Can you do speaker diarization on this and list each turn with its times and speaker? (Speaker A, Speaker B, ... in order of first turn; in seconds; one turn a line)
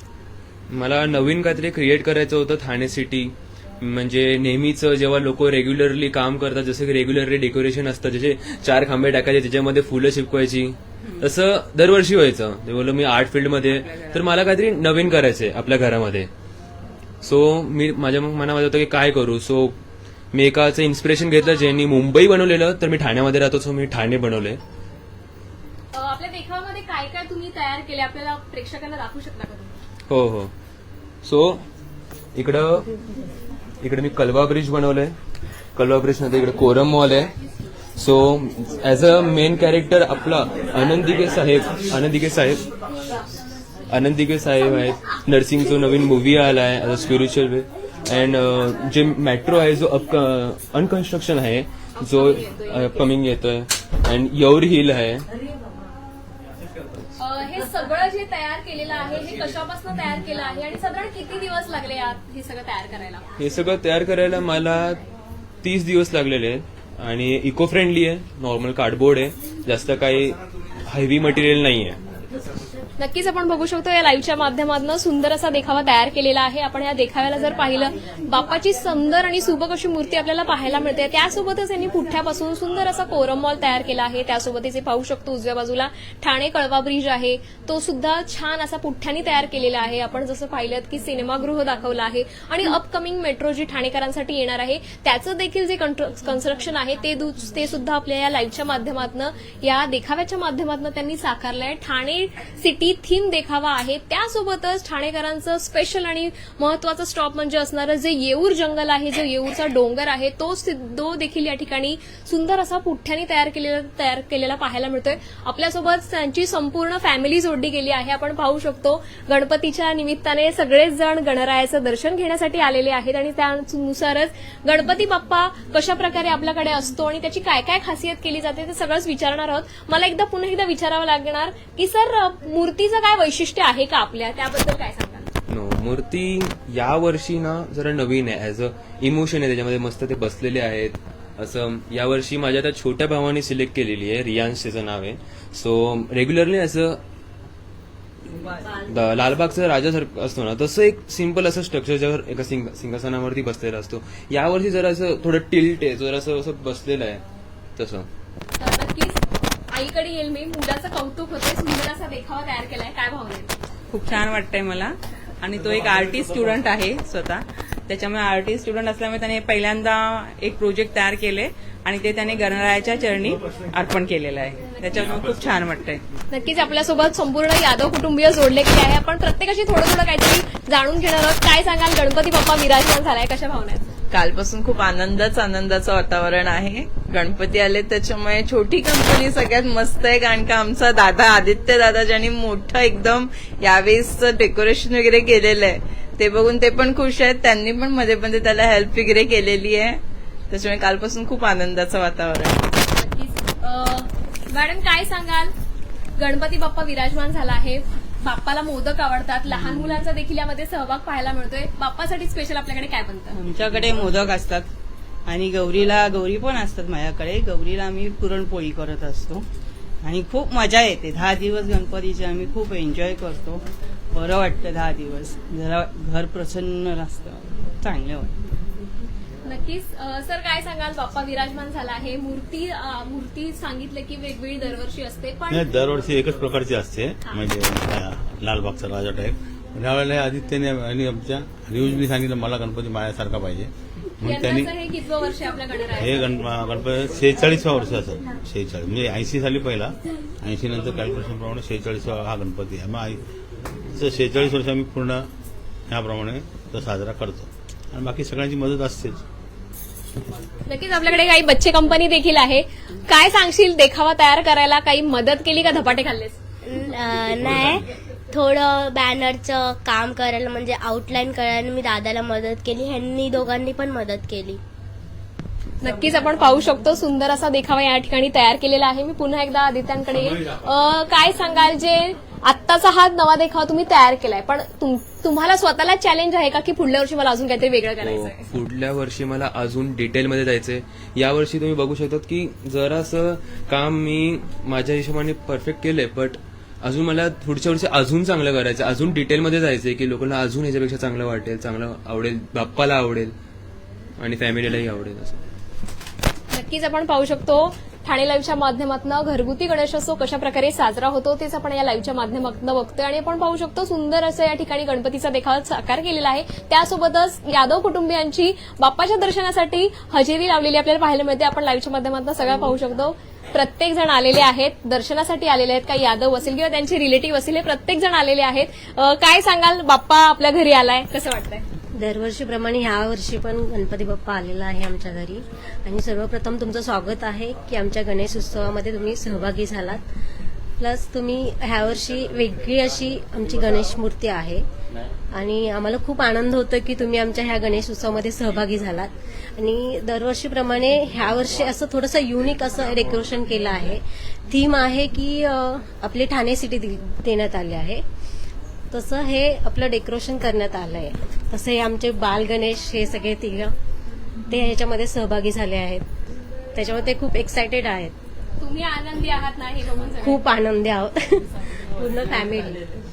Speaker A: 0.7-16.3
Speaker A: 17.2-19.8
Speaker A: 20.3-24.6
Speaker B: 25.9-29.8
Speaker A: 30.1-30.5
Speaker A: 31.2-31.6
Speaker A: 32.4-32.9
Speaker A: 33.8-35.1
Speaker A: 35.8-37.3
Speaker A: 38.0-42.6
Speaker A: 43.9-55.3
Speaker B: 52.2-52.9
Speaker B: 57.2-63.2
Speaker A: 63.4-65.0
Speaker A: 65.6-72.0
Speaker B: 73.0-135.3
Speaker A: 135.5-147.0
Speaker A: 148.9-157.2
Speaker A: 157.8-158.1
Speaker B: 158.6-163.5
Speaker C: 163.9-176.0
Speaker B: 176.3-183.9
Speaker D: 184.1-202.7
Speaker B: 202.9-205.5
Speaker B: 206.2-213.4
Speaker E: 213.3-214.7
Speaker E: 215.3-219.5
Speaker E: 220.0-228.4
Speaker B: 229.4-235.7
Speaker F: 235.5-243.7
Speaker B: 244.2-246.2
Speaker F: 246.0-249.9
Speaker F: 250.4-253.2
Speaker F: 254.0-255.2
Speaker F: 255.9-259.2
Speaker B: 260.7-266.4
Speaker G: 266.6-274.6
Speaker B: 275.8-288.5
Speaker A: 288.0-303.3
Speaker A: 304.2-305.4
Speaker B: 306.5-331.6
Speaker H: 332.0-340.0
Speaker H: 340.8-344.6
Speaker H: 345.3-358.0
Speaker H: 358.9-363.7
Speaker H: 364.5-366.0
Speaker H: 366.7-368.1
Speaker B: 368.6-370.4
Speaker H: 370.2-372.8